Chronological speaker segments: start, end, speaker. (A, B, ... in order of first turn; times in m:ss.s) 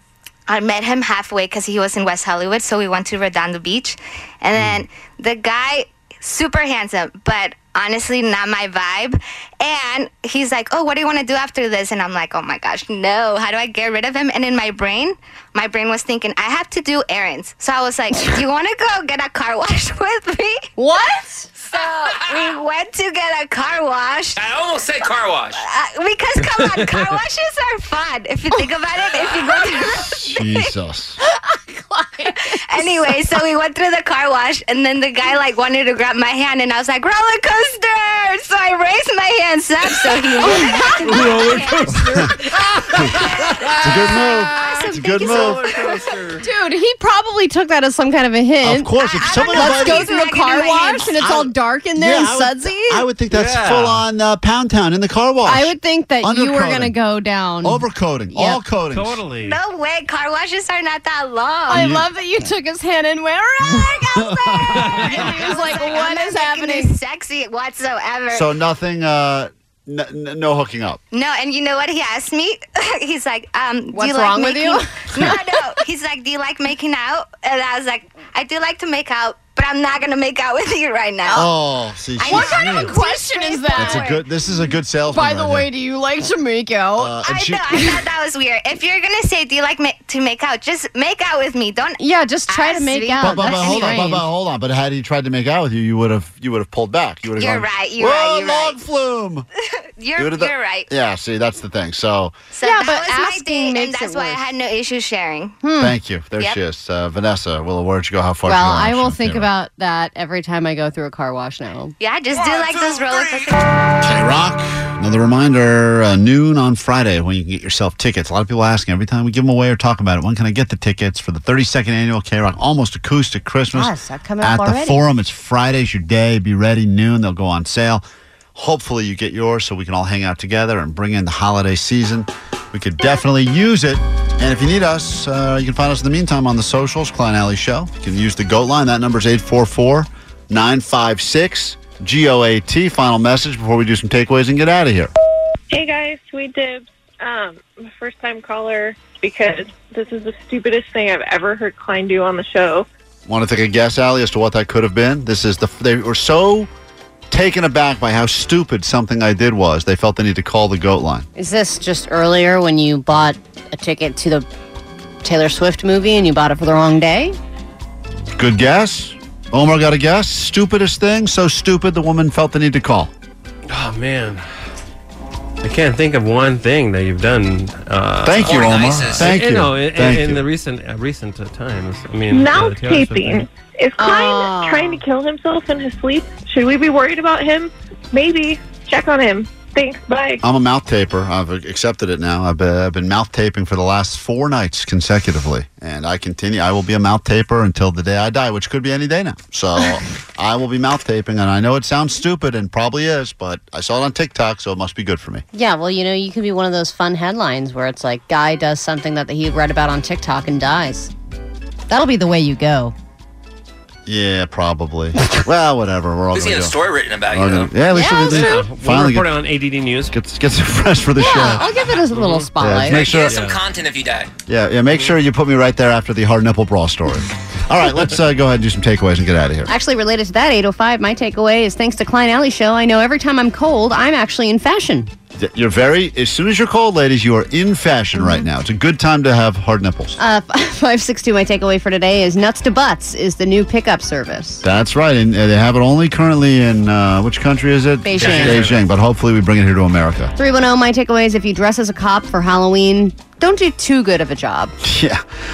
0:00.5-0:20.7 A
0:20.8-0:21.5 B
0:21.6-0:24.4 A
0:24.4-0:25.6 C
0:25.6-0:30.1 A
0:29.3-0:30.0 B
0:29.8-0:31.2 D
0:31.3-0:33.4 B
0:32.7-0:41.7 A
0:40.4-0:42.5 B
0:41.1-0:42.3 D
0:43.4-0:43.8 E
0:43.8-0:45.7 D
0:44.6-0:45.9 A
0:45.2-0:46.4 E
0:46.4-0:53.0 B
0:48.6-0:50.1 D
0:49.0-0:51.2 A
0:51.2-0:56.9 D
0:53.3-0:54.0 E
0:55.4-0:58.6 B
0:57.6-0:59.2 D
0:58.9-0:59.6 E
0:59.4-1:01.9 A
1:01.7-1:07.0 B
1:01.7-1:02.0 D
1:03.6-1:05.3 D
1:04.8-1:05.6 E
1:05.4-1:08.5 A
1:08.3-1:11.0 D
1:11.1-1:21.4 A
1:13.9-1:15.7 B
1:21.3-1:22.9 D
1:22.2-1:24.2 A
1:22.2-1:24.1 B
1:23.8-1:25.7 D
1:25.1-1:28.0 B
1:27.0-1:27.8 D
1:27.2-1:34.0 A
1:32.0-1:34.2 B
1:33.2-1:39.5 D
1:37.4-1:38.8 A
1:40.0-1:40.9 A
1:40.2-1:42.4 D
1:42.5-1:45.6 A
1:42.6-1:44.4 B
1:45.6-1:46.0 B
1:45.8-1:49.5 D
1:48.5-1:51.9 B
1:52.0-1:53.6 A
1:54.0-2:08.0 D
2:03.7-2:05.0 B
2:08.6-2:25.1 D
2:25.7-2:32.9 F
2:33.3-2:36.7 D
2:37.3-2:41.3 D
2:41.4-2:44.5 B
2:45.2-2:47.4 B
2:48.4-2:53.1 D
2:53.7-2:54.4 E
2:55.6-3:03.5 E
2:58.2-3:00.4 D
2:58.4-2:59.3 C
3:02.3-3:10.4 F
3:04.0-3:05.0 B
3:10.4-3:25.4 D
3:25.5-3:31.1 B
3:31.9-3:33.0 B
3:34.1-3:39.3 D
3:36.3-3:37.7 C
3:37.9-3:38.6 B
3:38.3-3:40.1 E
3:40.1-3:41.6 D
3:41.2-3:43.0 B
3:42.1-3:42.4 E
3:42.6-3:43.4 D
3:42.9-3:44.3 C
3:43.3-3:43.6 E
3:44.5-3:49.7 D
3:49.7-3:55.1 B
3:55.4-4:00.2 D
3:58.2-3:58.5 B
4:00.2-4:04.6 B
4:04.6-4:10.3 D
4:08.0-4:08.6 B
4:08.2-4:08.8 E
4:10.4-4:14.8 B
4:14.8-4:15.2 D